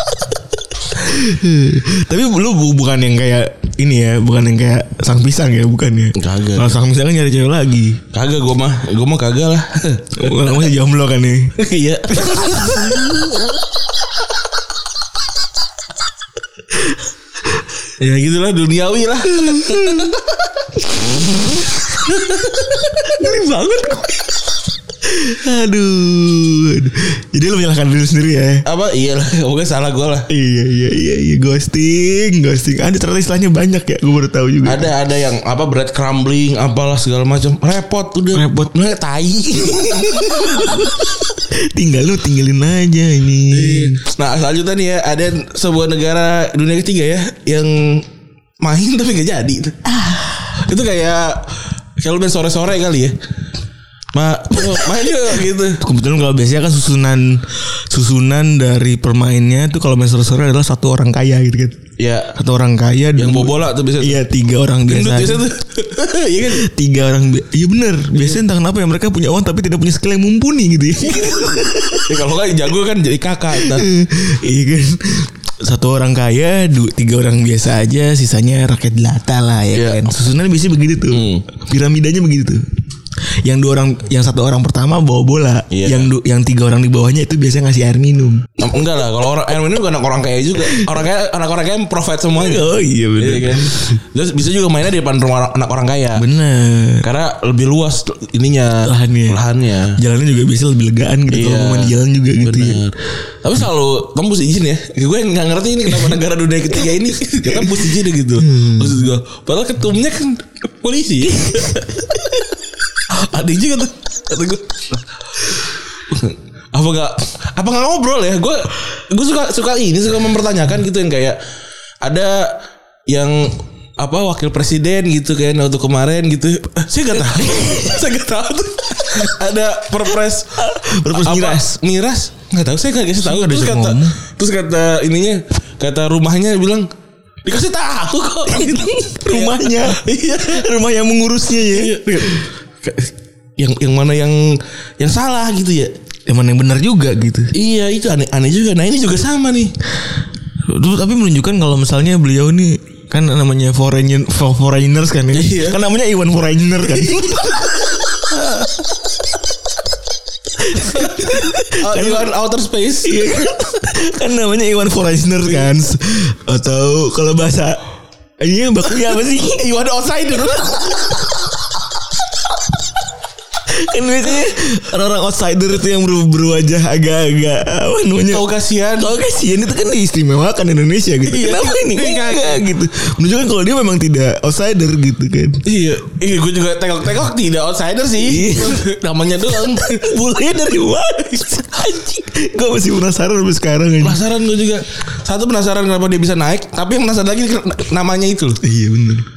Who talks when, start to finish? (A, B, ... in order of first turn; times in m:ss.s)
0:01.0-0:08.0 A
0:06.2-0:06.8 B
0:08.1-0:10.5 B
0:10.1-0:11.6 A
0:11.6-0:13.4 B
0:12.2-0:13.1 A
0:18.0-0:20.3 B
0:19.3-0:20.2 A
0:22.0-0:22.8 B
0:22.9-0:24.3 A
0:25.0-0:28.7 A
0:28.6-0:30.3 B
0:30.3-0:34.9 A
0:34.6-0:40.8 B
0:38.3-0:38.7 A
0:39.9-0:44.0 A
0:43.5-0:48.1 B
0:48.6-0:49.8 B
0:49.9-0:50.5 A
0:50.5-0:53.2 B
0:54.1-0:55.8 B
0:55.8-1:01.8 A
1:02.0-1:02.4 B
1:02.3-1:05.5 A
1:03.2-1:04.2 B
1:04.8-1:06.6 B
1:06.5-1:12.2 A
1:08.1-1:08.4 B
1:12.0-1:13.9 B
1:13.6-1:22.6 A
1:19.7-1:20.2 B
1:21.1-1:21.4 B
1:23.4-1:28.5 A
1:25.7-1:26.1 B
1:28.6-1:36.2 B
1:30.6-1:30.9 A
1:32.3-1:34.0 A
1:36.2-1:37.1 A
1:37.0-1:40.0 B
1:38.8-1:39.4 A
1:40.0-1:42.8 A
1:41.3-2:01.4 B
1:48.4-1:49.0 A
2:02.0-2:16.9 B
2:10.6-2:11.8 A
2:13.2-2:14.2 A
2:17.4-2:20.7 B
2:18.5-2:22.4 A
2:21.6-2:25.9 B
2:26.3-2:27.5 A
2:27.5-2:29.7 B
2:30.6-2:37.7 A
2:35.3-2:35.8 B
2:37.0-2:37.5 B
2:38.2-2:38.9 B
2:40.6-2:42.3 A
2:40.8-2:43.3 B
2:43.0-2:47.8 A
2:48.4-2:49.7 A
2:49.4-2:51.3 B
2:53.7-2:58.5 A
2:58.3-2:59.1 B
2:59.0-3:05.6 A
3:01.2-3:02.6 B
3:05.6-3:10.2 B
3:08.2-3:08.9 A
3:09.6-3:14.2 A
3:14.0-3:18.6 B
3:18.6-3:19.3 A